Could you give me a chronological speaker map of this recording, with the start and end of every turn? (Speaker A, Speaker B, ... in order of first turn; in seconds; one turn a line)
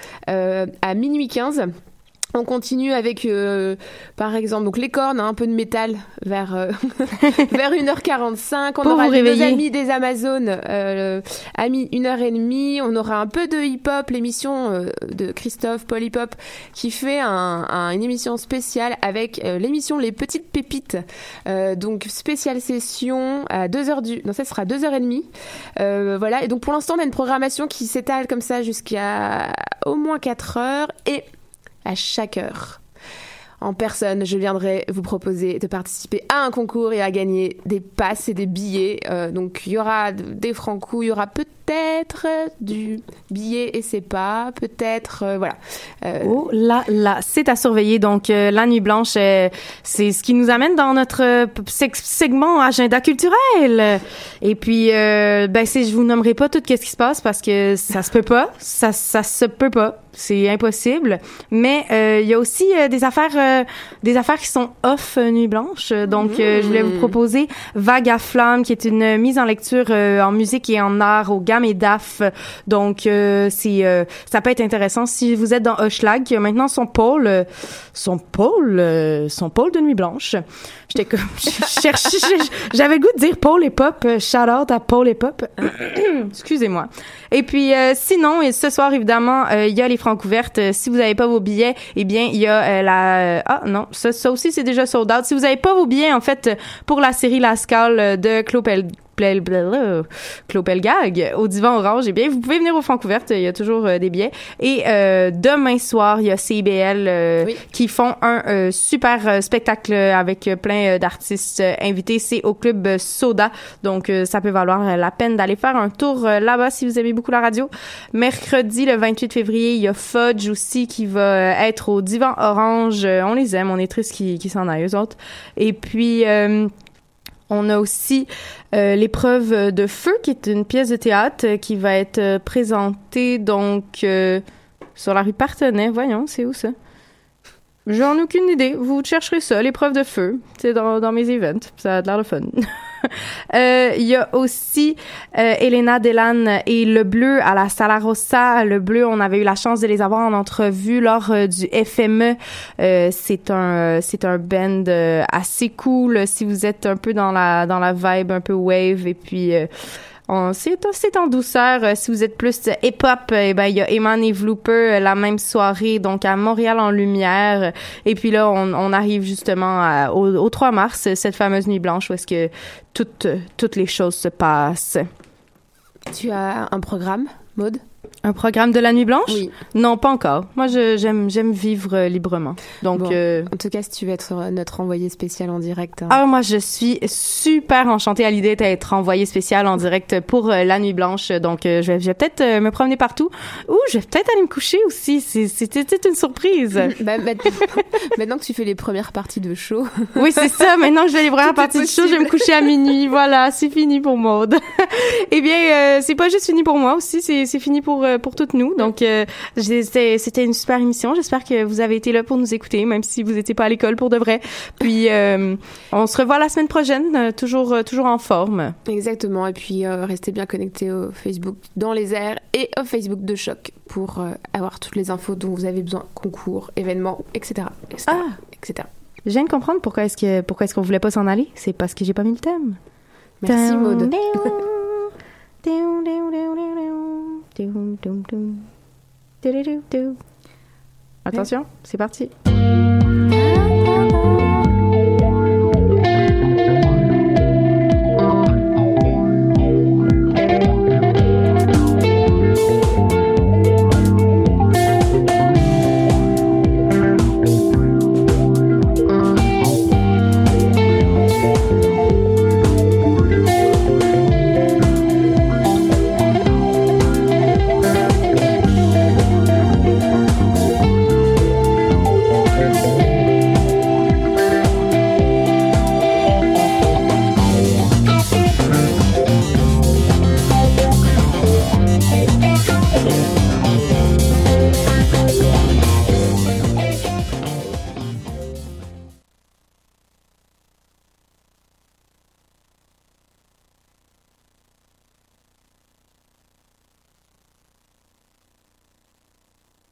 Speaker A: 0.3-1.7
Speaker A: 2.4-31.3
Speaker B: 8.8-9.6
Speaker A: 31.9-32.8
Speaker A: 33.6-46.4
Speaker B: 46.2-126.7
Speaker A: 66.1-67.1
Speaker B: 127.5-134.4
Speaker B: 135.0-136.8
Speaker B: 137.9-159.7
Speaker B: 160.3-175.1
Speaker A: 176.1-177.8
Speaker B: 178.2-183.5
Speaker A: 179.3-179.6
Speaker A: 182.9-186.2
Speaker B: 186.1-196.9
Speaker A: 196.8-200.5
Speaker B: 200.2-218.8
Speaker A: 201.4-202.7
Speaker A: 218.9-228.9
Speaker B: 228.1-228.4
Speaker B: 229.2-232.8
Speaker A: 233.4-234.2
Speaker B: 233.5-235.1
Speaker B: 235.6-238.7
Speaker B: 239.4-240.2
Speaker B: 241.2-242.3